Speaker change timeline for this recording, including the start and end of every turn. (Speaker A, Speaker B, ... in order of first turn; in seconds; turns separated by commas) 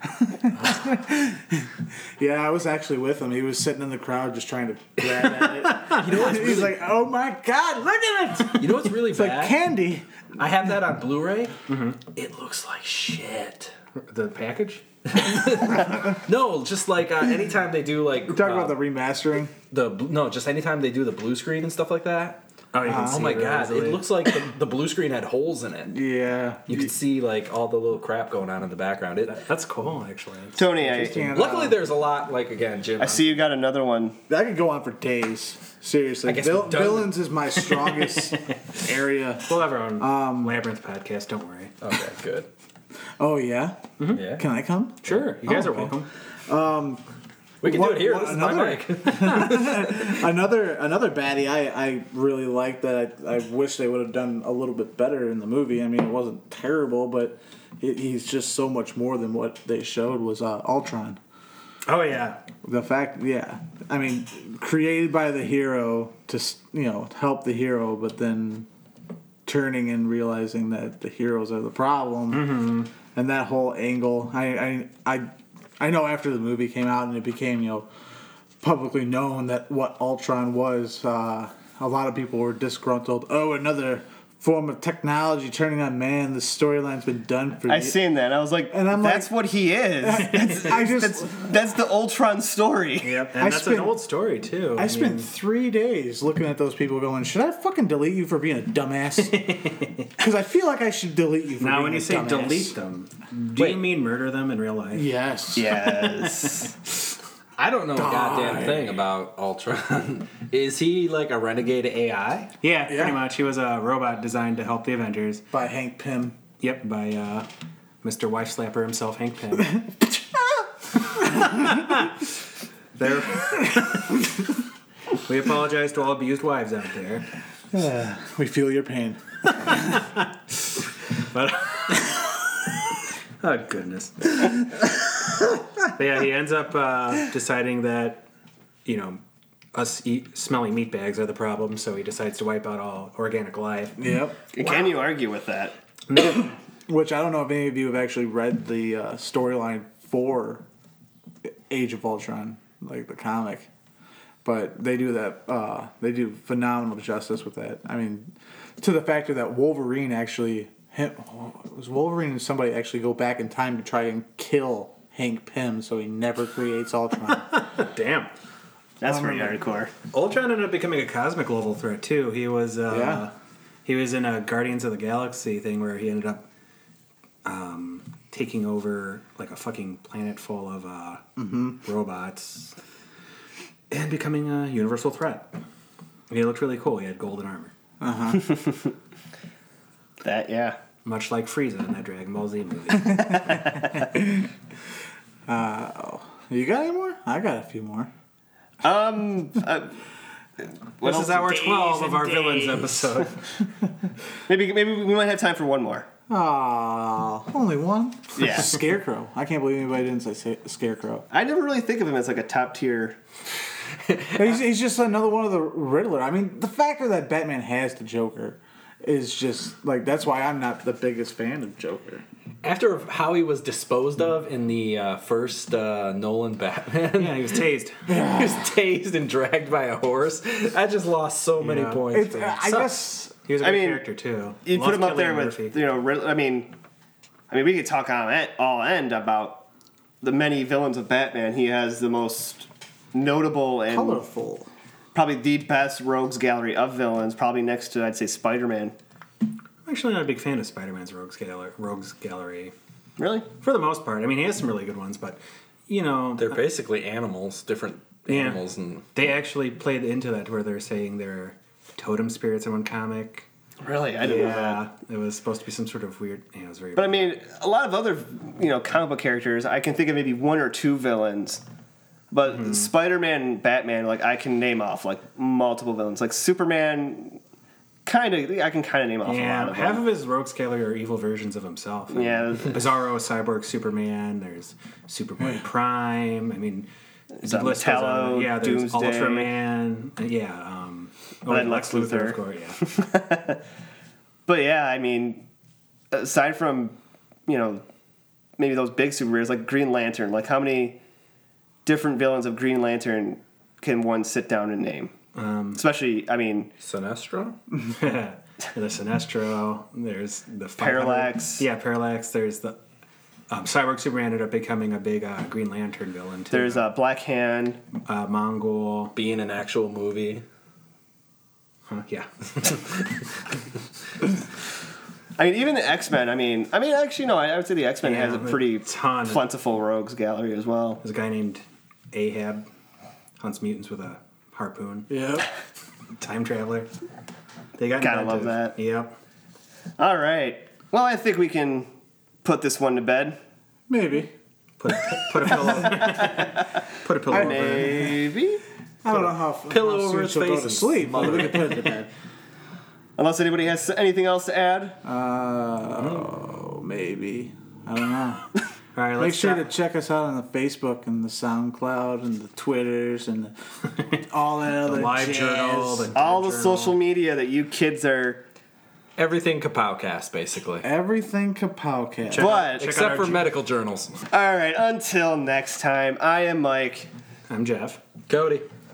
Speaker A: 0.2-10.1, Speaker B: 5.4-6.0, Speaker C: 5.9-6.8, Speaker C: 8.5-9.6, Speaker C: 10.4-13.7, Speaker B: 11.7-12.0, Speaker B: 13.9-14.8, Speaker C: 15.1-18.8, Speaker A: 15.7-16.1, Speaker A: 18.3-19.5, Speaker C: 19.7-25.9, Speaker B: 22.7-24.1, Speaker A: 22.8-23.4, Speaker A: 25.9-26.9, Speaker C: 26.7-29.4, Speaker B: 29.4-30.7, Speaker D: 30.6-31.3, Speaker A: 30.8-31.8, Speaker C: 31.1-33.4, Speaker D: 33.0-34.1, Speaker A: 34.3-40.6, Speaker C: 36.2-37.9, Speaker B: 38.0-38.8, Speaker B: 39.5-41.7, Speaker C: 41.8-42.5, Speaker A: 43.2-46.0, Speaker C: 44.1-44.4, Speaker B: 45.0-46.1, Speaker A: 46.5-47.0, Speaker C: 47.6-50.2, Speaker A: 47.6-61.2, Speaker B: 61.9-62.4, Speaker A: 62.6-68.7, Speaker A: 69.5-72.6, Speaker B: 72.3-72.9, Speaker A: 73.1-77.9, Speaker A: 78.6-88.0, Speaker D: 87.7-93.2, Speaker A: 88.7-89.3, Speaker A: 90.0-91.4, Speaker B: 93.0-95.3, Speaker A: 93.4-94.0, Speaker A: 94.8-99.4, Speaker B: 99.2-100.1, Speaker A: 100.2-102.7, Speaker B: 101.6-105.0, Speaker C: 103.6-103.8, Speaker A: 104.9-105.8, Speaker D: 105.5-106.7, Speaker B: 106.0-106.7, Speaker C: 107.6-112.5, Speaker A: 107.9-108.9, Speaker B: 112.6-115.4, Speaker A: 112.9-113.2, Speaker A: 115.5-116.4, Speaker B: 116.6-117.5, Speaker B: 118.0-119.8, Speaker B: 121.2-122.1, Speaker B: 123.0-124.2, Speaker A: 123.5-124.2, Speaker B: 125.2-127.2, Speaker A: 127.7-130.0, Speaker B: 129.8-130.2, Speaker B: 131.3-132.2, Speaker B: 133.4-134.6, Speaker B: 135.8-138.2, Speaker B: 138.8-139.2, Speaker B: 139.7-144.0, Speaker A: 144.0-144.4, Speaker D: 144.5-145.7, Speaker B: 146.1-146.4, Speaker A: 146.9-150.6, Speaker A: 151.7-153.7, Speaker A: 154.4-167.5, Speaker B: 167.5-168.3, Speaker D: 169.0-169.9, Speaker A: 169.1-169.6, Speaker B: 170.1-173.3, Speaker A: 172.9-173.2, Speaker B: 173.8-176.4, Speaker B: 177.4-181.2, Speaker A: 181.4-181.8, Speaker B: 181.8-182.7, Speaker B: 183.9-185.5, Speaker B: 186.3-187.7, Speaker A: 188.0-188.6, Speaker D: 188.4-188.9, Speaker D: 190.2-190.8, Speaker B: 191.0-193.8, Speaker A: 193.1-194.5, Speaker A: 195.5-198.1, Speaker D: 198.8-199.9, Speaker D: 201.0-202.3, Speaker B: 201.0-203.4, Speaker D: 204.5-206.1, Speaker A: 206.3-211.2, Speaker D: 208.3-208.7, Speaker D: 211.3-213.2, Speaker A: 214.3-222.2, Speaker C: 222.6-232.6, Speaker B: 227.2-228.0, Speaker A: 228.1-228.7, Speaker B: 231.6-235.7, Speaker A: 232.1-233.3, Speaker D: 233.6-234.0, Speaker D: 234.6-236.7, Speaker D: 237.5-239.6, Speaker D: 240.2-244.2, Speaker A: 243.9-244.7, Speaker D: 245.1-248.9, Speaker B: 249.8-252.7, Speaker D: 253.2-253.4, Speaker B: 253.6-256.6, Speaker C: 256.4-259.1, Speaker B: 258.3-258.6, Speaker B: 259.1-263.4, Speaker D: 263.8-264.8, Speaker B: 264.2-267.3, Speaker D: 266.9-271.6, Speaker D: 272.3-277.4, Speaker B: 272.6-272.9, Speaker D: 278.1-280.1, Speaker B: 279.2-286.9, Speaker D: 282.1-282.8, Speaker D: 287.4-289.5, Speaker B: 287.4-292.8, Speaker D: 291.5-293.6, Speaker D: 294.5-295.4, Speaker D: 296.1-296.9, Speaker D: 297.5-297.8, Speaker D: 298.6-301.0, Speaker D: 301.9-305.1, Speaker B: 305.3-305.8, Speaker D: 305.7-306.7, Speaker C: 306.8-307.6, Speaker B: 307.8-312.8, Speaker D: 310.8-311.6, Speaker B: 313.5-316.9, Speaker D: 316.5-317.8, Speaker B: 318.0-319.1, Speaker C: 319.1-320.4, Speaker B: 321.9-323.1, Speaker D: 325.4-331.0, Speaker B: 328.0-329.4, Speaker B: 331.0-332.6, Speaker B: 333.4-335.1, Speaker A: 335.1-335.5, Speaker B: 336.2-336.9, Speaker B: 337.8-339.1, Speaker D: 338.0-338.8, Speaker D: 340.0-341.9, Speaker D: 342.4-343.4, Speaker A: 343.9-344.3, Speaker B: 344.8-348.1, Speaker D: 346.1-346.6, Speaker D: 347.3-348.6, Speaker A: 347.3-348.2, Speaker A: 349.0-352.1, Speaker C: 349.7-351.9, Speaker D: 353.2-355.0, Speaker A: 355.0-358.5, Speaker B: 356.0-356.3, Speaker B: 358.9-359.6, Speaker A: 359.2-363.5, Speaker A: 364.1-366.1, Speaker B: 364.8-367.0, Speaker D: 366.1-368.4, Speaker C: 369.2-370.9, Speaker A: 370.8-372.5, Speaker B: 372.3-373.5, Speaker D: 372.3-372.9, Speaker C: 372.7-374.2, Speaker D: 374.3-377.1, Speaker B: 377.5-378.0, Speaker C: 378.3-378.7